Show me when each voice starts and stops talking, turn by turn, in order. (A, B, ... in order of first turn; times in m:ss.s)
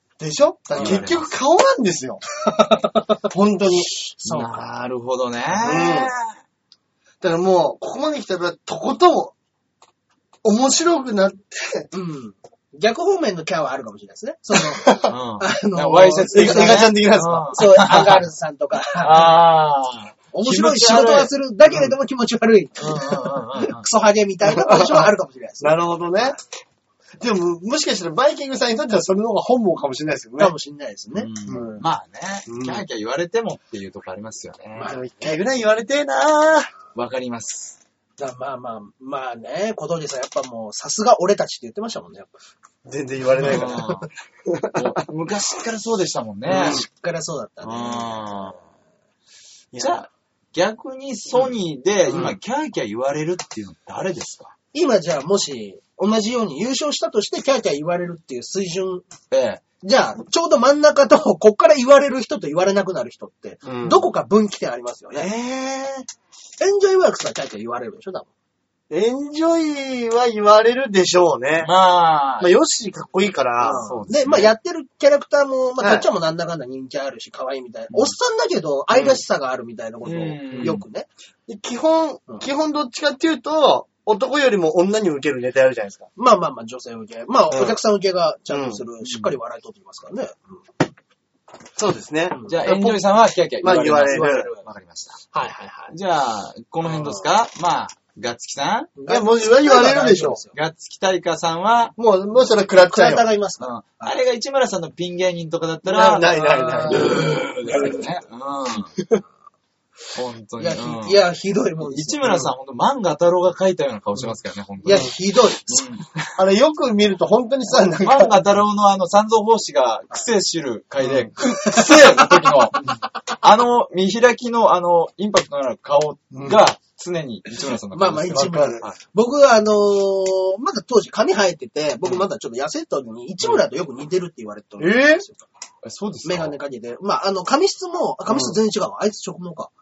0:00.2-0:02.2 A
0:00.7-0:01.0 B
0:00.7-0:01.3 C
0:02.4-0:03.2 B
0:03.3-0:03.9 A
0:03.9-0:04.6 B
0:04.2-0:06.3 C
0:05.5-0:06.1 A
0:07.2-0:09.3 A
0:10.4-0:11.9 A
0:11.9-0:19.3 B
0:14.6-0:15.1 A
0:15.1-0:18.2 C
0:16.3-0:17.5 A
0:18.9-0:21.3 C
0:20.3-0:25.8 B
0:22.8-0:23.8 C
0:24.4-0:26.4 A
0:27.2-0:30.5 A
0:30.4-0:31.8 B
0:31.1-0:34.9 C
0:31.5-0:31.8 A
0:32.5-0:32.8 A
0:34.8-0:35.3 B
0:34.8-0:36.7 A
0:36.9-0:37.8 C
0:38.2-0:42.3 B
0:42.8-0:43.9 A
0:43.4-0:44.1 C
0:43.4-0:44.0 B
0:44.4-0:45.0 A
0:44.7-0:46.8 C
0:46.5-0:46.8 A
0:46.5-0:48.6 B
0:47.6-0:48.6 C
0:49.7-0:50.0 A
0:49.8-0:54.5 C
0:52.1-0:52.4 A
0:54.7-0:59.0 B
0:59.3-0:59.6 C
0:59.8-1:05.3 B
1:03.6-1:04.1 A
1:05.1-1:06.0 A
1:06.6-1:08.3 B
1:08.9-1:11.7 A
1:11.6-1:12.5 C
1:12.4-1:13.9 A
1:13.6-1:21.1 B
1:13.7-1:14.5 C
1:15.8-1:16.1 A
1:18.9-1:19.2 A
1:20.0-1:20.8 C
1:20.6-1:20.8 A
1:21.5-1:26.1 A
1:26.2-1:30.6 B
1:27.5-1:27.8 A
1:28.5-1:28.8 A
1:29.0-1:29.3 C
1:31.8-1:33.0 A
1:32.5-1:35.2 C
1:33.6-1:34.5 A
1:34.0-1:34.6 B
1:35.3-1:35.9 B
1:35.9-1:38.9 C
1:36.9-1:37.2 B
1:39.0-1:40.5 B
1:39.1-1:40.4 A
1:40.5-1:41.9 C
1:42.0-1:43.2 A
1:42.8-1:44.1 B
1:43.6-1:48.9 C
1:45.8-1:48.0 A
1:46.4-1:47.9 B
1:50.1-1:51.2 C
1:50.6-1:52.2 B
1:51.8-1:56.4 C
1:54.8-1:55.9 B
1:56.4-1:58.4 A
1:58.0-2:09.0 C
2:01.0-2:01.3 A
2:01.6-2:02.1 B
2:06.3-2:06.6 A
2:07.9-2:15.4 B
2:08.3-2:08.8 A
2:14.8-2:15.2 A
2:15.8-2:16.5 C
2:16.2-2:19.7 B
2:18.3-2:18.6 A